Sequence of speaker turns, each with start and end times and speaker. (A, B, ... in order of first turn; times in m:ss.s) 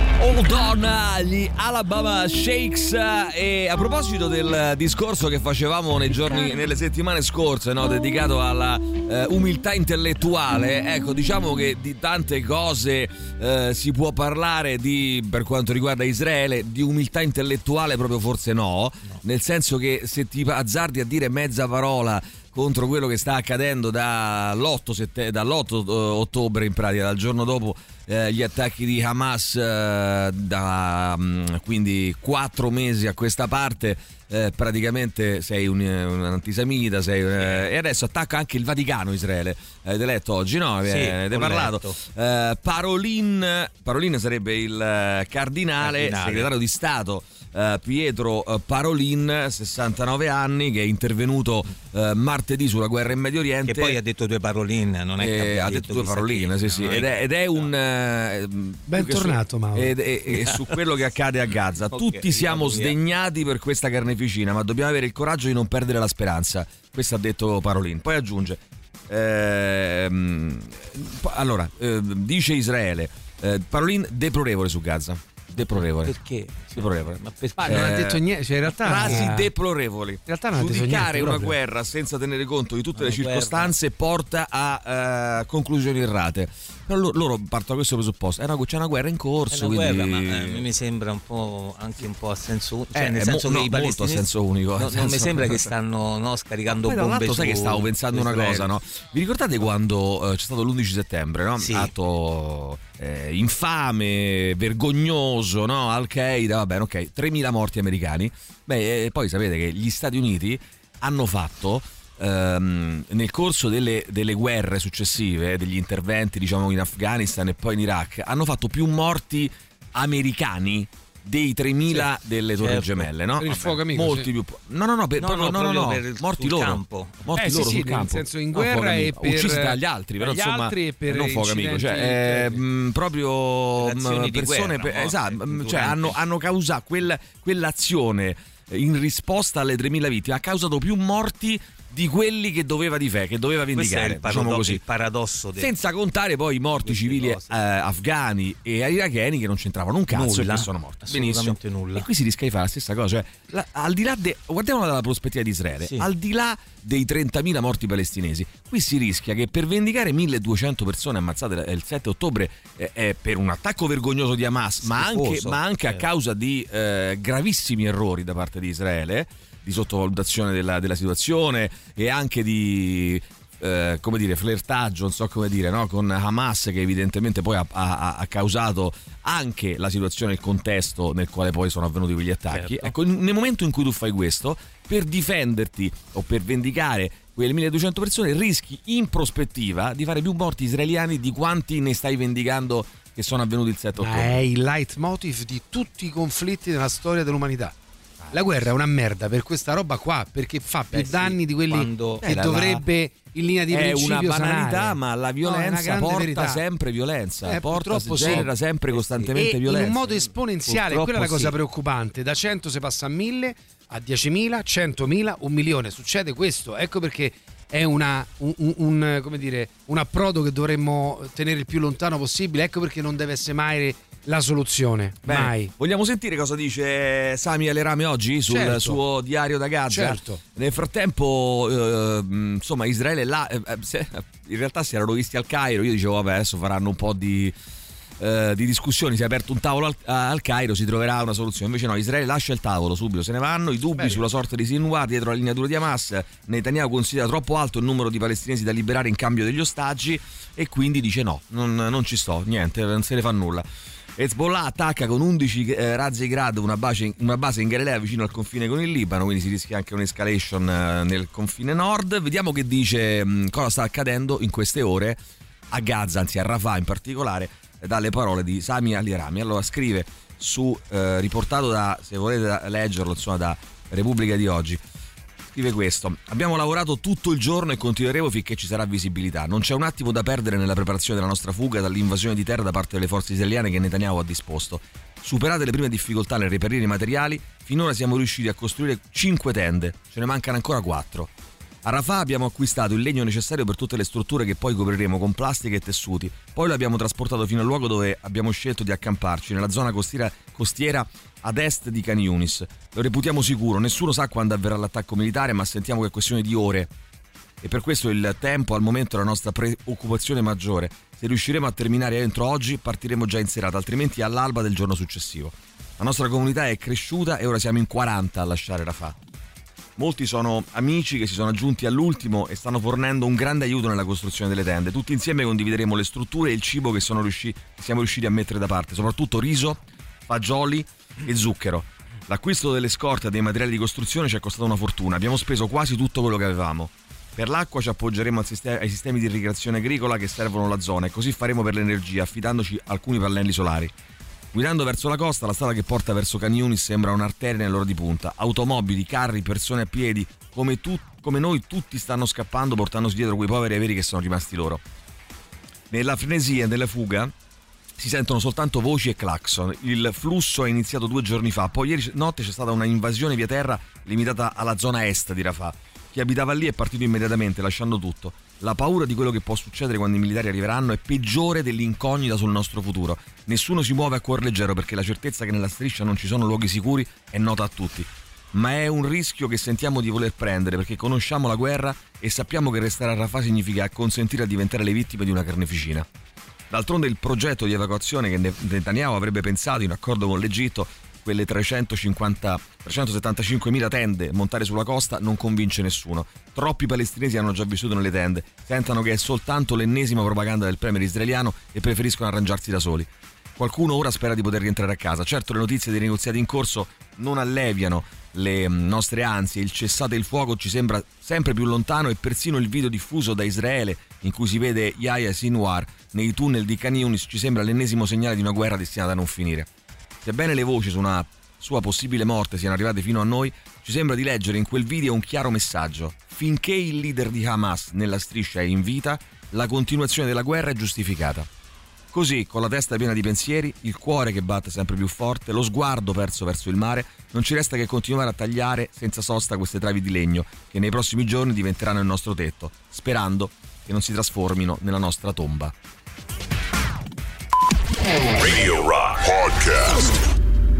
0:00.2-0:54.0 A
0:37.4-0:37.7 B
0:40.8-0:42.0 B
0:45.8-0:46.5 B
0:53.7-0:57.7 B
0:55.2-1:16.1 A
0:58.9-0:59.9 C
1:00.3-1:00.7 B
1:01.9-1:03.0 B
1:15.8-1:18.0 B
1:16.8-1:30.6 A
1:17.7-1:19.5 C
1:18.9-1:19.2 B
1:20.3-1:21.6 C
1:23.0-1:23.7 B
1:29.5-1:38.7 B
1:32.9-1:35.7 A
1:36.7-2:24.8 A
1:41.6-1:41.9 B
2:02.6-2:03.1 B
2:03.4-2:04.3 C
2:05.2-2:07.4 B
2:07.4-2:12.6 C
2:13.8-2:16.2 B
2:23.8-2:25.7 B
2:25.6-3:14.4 A
2:26.8-2:27.6 B
2:30.1-2:32.1 B
2:44.8-2:46.0 B
3:02.5-3:02.9 B
3:14.0-3:17.8 C
3:18.3-3:26.6 C
3:20.9-3:22.7 B
3:22.2-3:22.8 A
3:23.7-3:30.1 A
3:27.4-3:28.5 C
3:28.2-3:29.3 B
3:29.4-3:45.7 C
3:30.7-3:31.5 B
3:45.2-3:57.5 A
3:48.5-3:49.0 C
3:49.9-3:50.4 C
3:58.2-4:13.7 A
4:04.0-4:04.2 C
4:14.2-4:25.2 A
4:25.7-4:34.8 A
4:35.5-4:51.3 A
4:51.8-5:06.9 A
5:07.6-5:19.2 A
5:20.0-5:43.9 A
5:44.5-5:54.8 A
5:55.9-5:57.3 A
5:58.0-6:26.1 A
6:26.7-6:59.7 A
7:00.2-7:11.5 A
7:12.1-7:25.7 A
7:28.4-7:28.8 A